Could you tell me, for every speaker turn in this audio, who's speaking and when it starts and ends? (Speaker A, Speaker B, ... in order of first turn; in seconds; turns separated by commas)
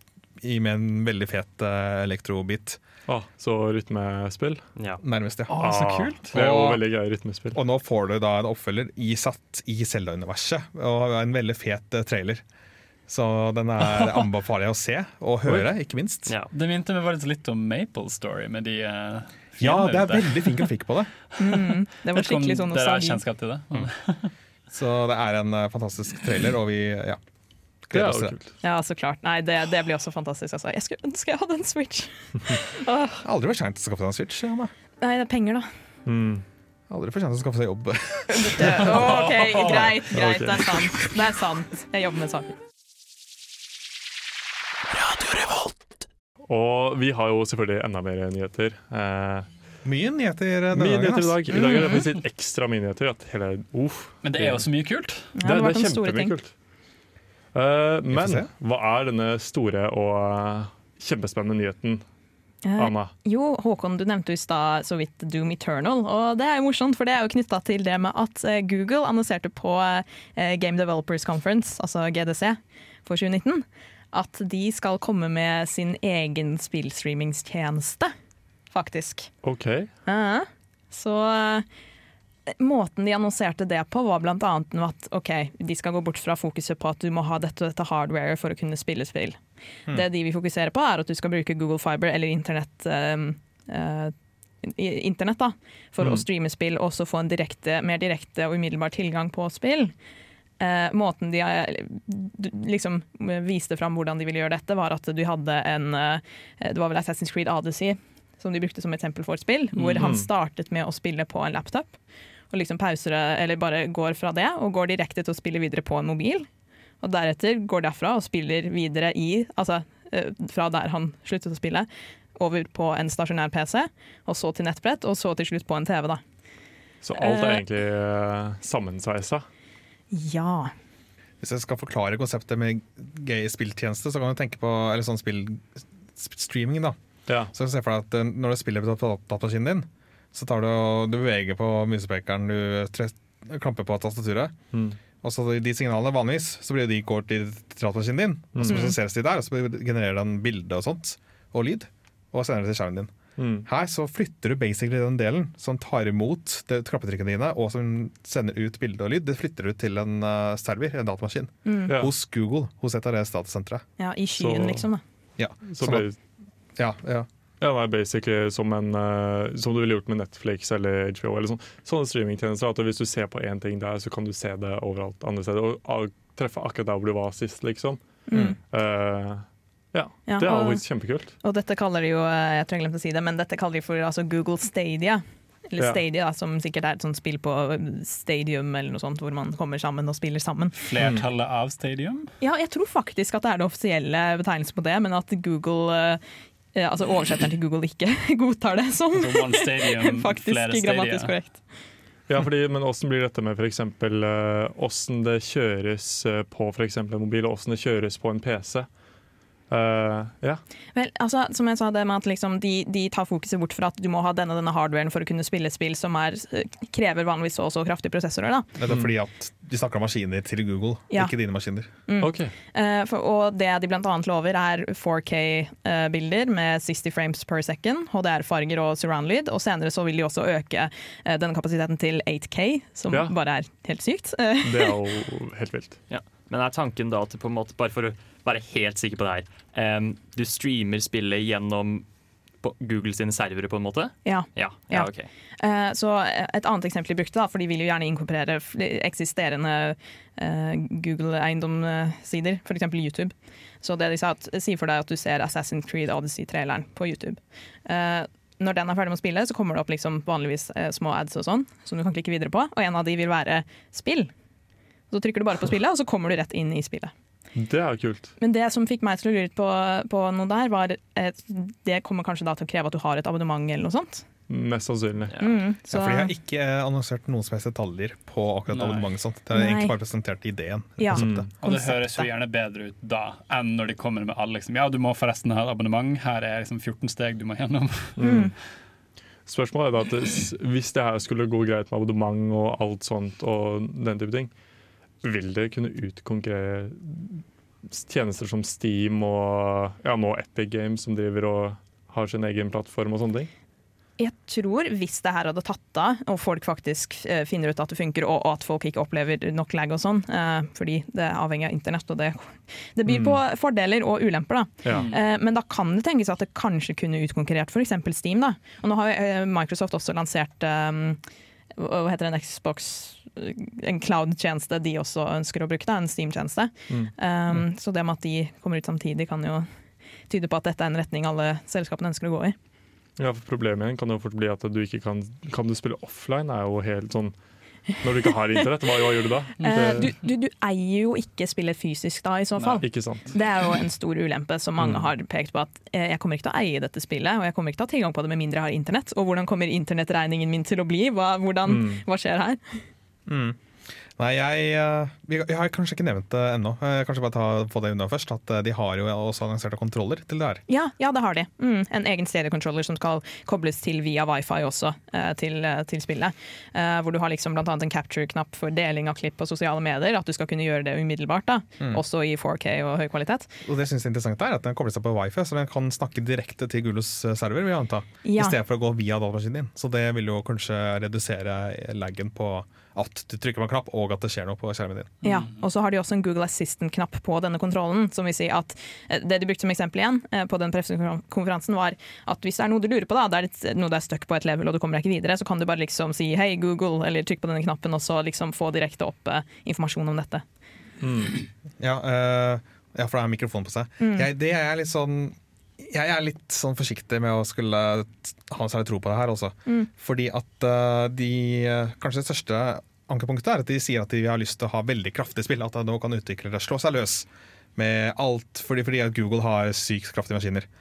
Speaker A: 0.4-2.8, Speaker B: 3.1-4.6, Speaker A: 5.0-5.8, Speaker C: 5.5-6.3, Speaker B: 5.5-7.6, Speaker A: 6.3-6.8, Speaker A: 7.5-12.4, Speaker A: 13.1-16.3, Speaker C: 13.8-14.2, Speaker D: 16.3-16.5, Speaker C: 16.5-20.7, Speaker A: 19.6-21.1, Speaker E: 21.4-23.2, Speaker C: 22.1-24.3, Speaker A: 24.7-27.2, Speaker A: 27.8-28.4, Speaker B: 27.9-28.5, Speaker E: 28.6-33.2, Speaker A: 33.2-34.7, Speaker E: 35.0-35.7, Speaker B: 36.0-36.4, Speaker A: 36.9-39.0, Speaker E: 38.3-42.5, Speaker C: 38.9-40.0, Speaker B: 40.1-41.0, Speaker B: 46.5-49.5, Speaker A: 49.8-51.5, Speaker B: 50.7-54.7, Speaker E: 51.5-52.0, Speaker C: 54.2-55.3, Speaker E: 55.3-56.3, Speaker B: 55.4-56.5, Speaker B: 57.5-62.0, Speaker A: 58.1-58.5, Speaker E: 62.6-78.1, Speaker B: 62.8-63.1, Speaker E: 78.7-79.3, Speaker B: 79.4-79.9, Speaker E: 80.0-81.6, Speaker E: 82.5-89.4, Speaker E: 89.9-99.9, Speaker E: 100.6-112.0, Speaker B: 110.0-110.3, Speaker E: 112.5-116.5, Speaker E: 117.0-126.2, Speaker B: 127.0-129.5, Speaker E: 127.2-127.6, Speaker E: 130.1-130.7, Speaker A: 131.4-144.6, Speaker B: 137.3-137.5, Speaker B: 144.7-145.0, Speaker A: 145.2-163.8, Speaker B: 148.5-148.9, Speaker E: 148.7-148.9, Speaker B: 153.4-153.7, Speaker E: 161.6-161.9, Speaker E: 164.0-165.0, Speaker B: 164.4-164.9, Speaker A: 165.4-166.1, Speaker B: 165.6-166.2, Speaker A: 166.8-167.3, Speaker B: 167.6-181.3, Speaker E: 178.3-178.6, Speaker E: 180.3-190.7, Speaker C: 190.8-192.3, Speaker B: 191.0-191.2, Speaker E: 192.4-196.2, Speaker E: 196.7-201.6, Speaker C: 199.1-201.3, Speaker B: 202.3-208.9, Speaker B: 209.7-210.6, Speaker E: 210.9-218.7, Speaker A: 218.8-221.9, Speaker E: 222.1-234.9, Speaker B: 222.2-222.5, Speaker B: 234.6-236.0, Speaker D: 236.1-242.0, Speaker D: 242.6-245.3, Speaker E: 244.2-264.3, Speaker E: 265.1-267.1, Speaker B: 267.5-268.3, Speaker E: 268.4-274.2, Speaker B: 274.5-275.3, Speaker D: 275.3-275.6, Speaker E: 275.4-276.3, Speaker A: 275.9-281.5, Speaker C: 278.7-279.1, Speaker E: 279.5-279.9, Speaker E: 281.0-282.3, Speaker B: 281.1-281.5, Speaker C: 281.6-288.1, Speaker B: 288.2-288.5, Speaker E: 288.2-288.5, Speaker B: 289.4-294.5, Speaker B: 295.2-303.5, Speaker E: 304.2-321.2, Speaker B: 313.1-313.4, Speaker B: 314.8-315.1, Speaker C: 314.9-315.2, Speaker E: 321.8-329.7, Speaker E: 330.3-332.6, Speaker B: 333.2-337.3, Speaker B: 337.9-340.1, Speaker E: 339.6-352.8, Speaker C: 342.6-342.8, Speaker B: 342.8-343.3, Speaker B: 344.8-345.1, Speaker B: 351.7-352.0, Speaker A: 353.3-353.6, Speaker A: 354.1-360.6, Speaker E: 360.7-373.5, Speaker A: 373.6-385.1, Speaker E: 378.2-378.6, Speaker C: 385.2-385.6, Speaker E: 385.2-400.4, Speaker B: 401.0-401.3, Speaker A: 401.8-420.7, Speaker E: 404.0-404.3